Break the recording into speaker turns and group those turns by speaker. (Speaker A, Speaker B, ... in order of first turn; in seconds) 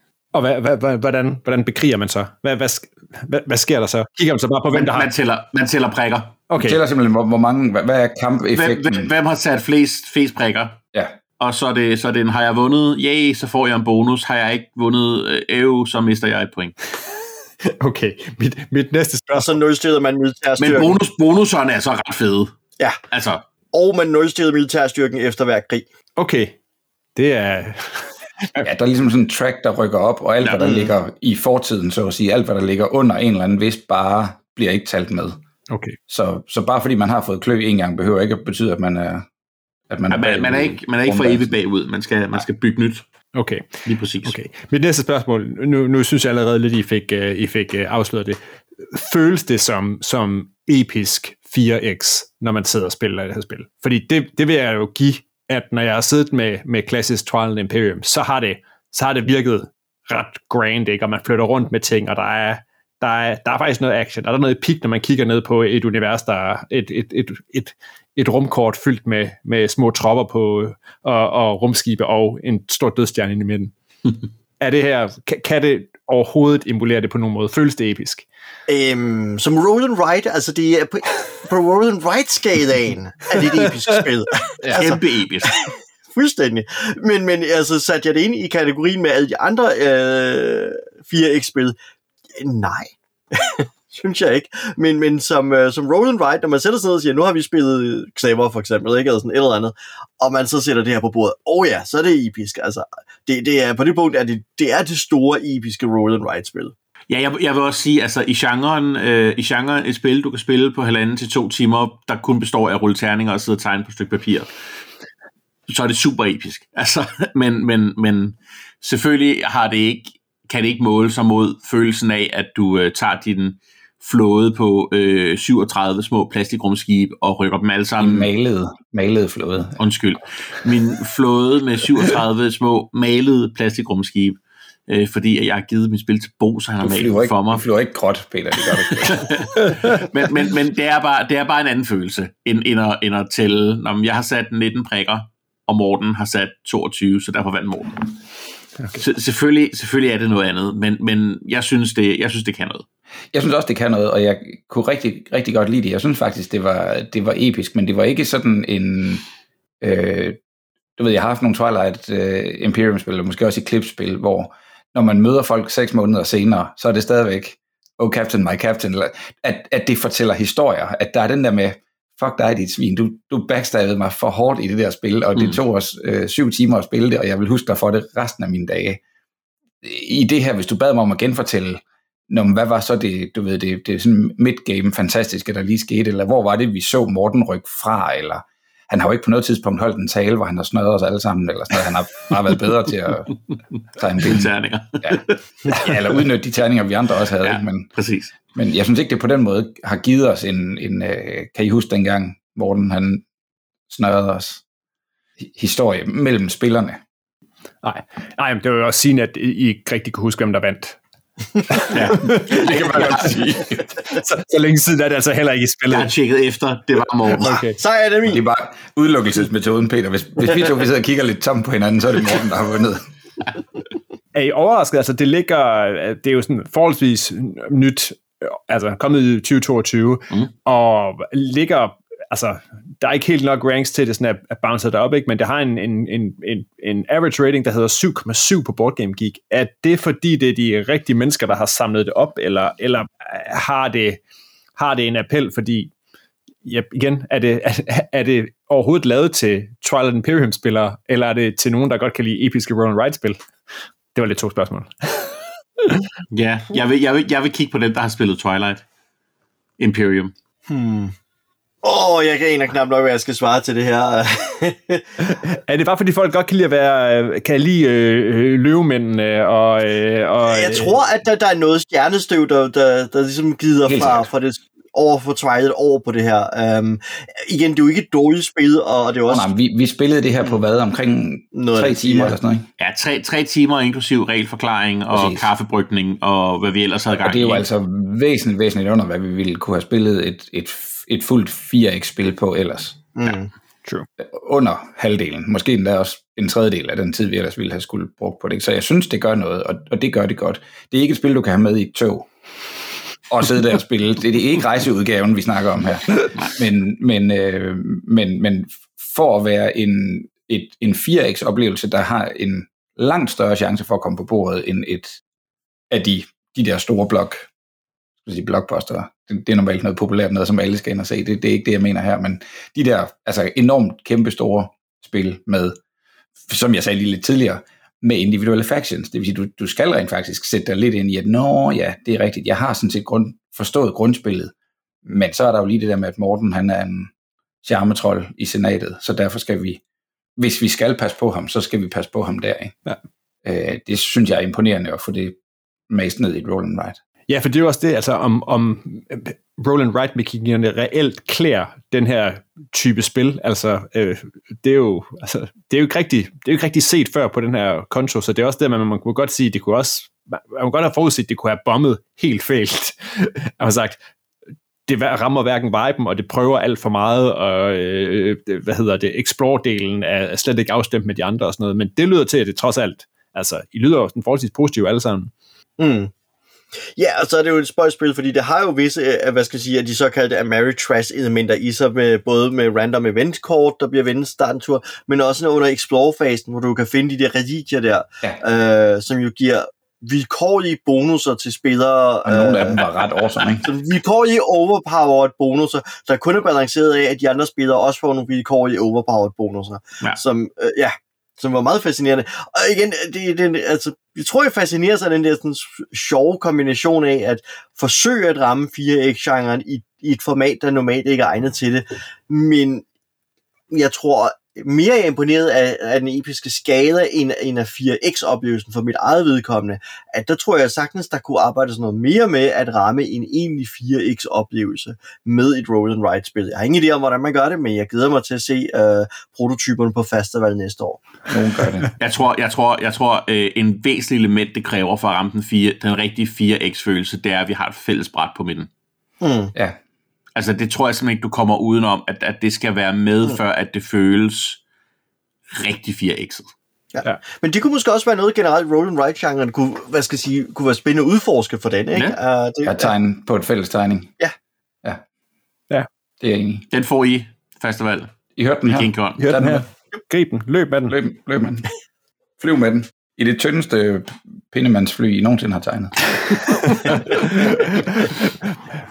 Speaker A: 0.3-5.1, 6.5-6.8, 17.6-19.6, 26.2-26.6, 27.1-28.6, 35.7-36.0, 43.3-73.7, 74.6-78.2, 207.8-211.0, 211.7-213.2, 214.0-216.1, 217.4-217.8, 224.3-244.2, 244.8-245.9, 246.6-253.4, 254.1-256.0, 265.2-270.9, 347.3-364.0, 364.9-375.3, 459.2-461.0, 466.7-468.3
Speaker B: 4.7-6.4, 8.6-10.8, 11.4-16.8, 20.6-22.5, 23.1-23.4, 40.1-43.0, 43.8-44.3, 84.7-85.6, 107.1-114.5, 115.7-128.3, 129.8-137.6, 138.9-148.1, 149.0-152.8, 194.2-196.1, 197.4-198.3, 211.9-213.4, 215.9-217.5, 256.3-258.8, 259.8-260.3, 282.8-287.6, 306.3-306.6, 432.0-438.7, 440.4-444.6, 445.5-446.5, 456.7-458.1, 458.6-459.2
Speaker C: 6.6-9.1, 28.6-35.4, 36.1-39.2, 39.9-41.5, 128.0-129.8, 136.8-139.4, 153.3-159.2, 159.8-160.4, 161.0-179.0, 179.8-193.3, 193.9-197.9, 198.5-203.2, 203.9-204.6, 205.4-207.0, 212.5-213.9, 218.2-223.0, 273.9-274.3, 279.3-282.7, 285.1-285.4, 287.2-293.0, 294.2-302.3, 303.3-315.2, 315.9-317.5, 318.2-325.8, 326.5-334.5, 335.0-337.1, 337.6-339.8, 340.4-342.8, 343.4-345.4, 345.9-346.9, 392.2-393.7, 431.3-431.9, 452.6-454.1, 456.2-456.6, 458.4-459.6, 460.9-461.7, 462.4-465.9
Speaker D: 19.3-21.0, 23.7-25.9, 30.6-30.9, 78.7-91.8, 92.4-106.7, 217.7-218.4, 260.7-261.1, 261.8-265.0, 270.4-279.5, 281.5-282.4, 293.1-293.5, 375.8-376.1, 376.9-392.8, 393.6-412.8, 413.7-431.1, 439.2-439.5, 446.9-452.9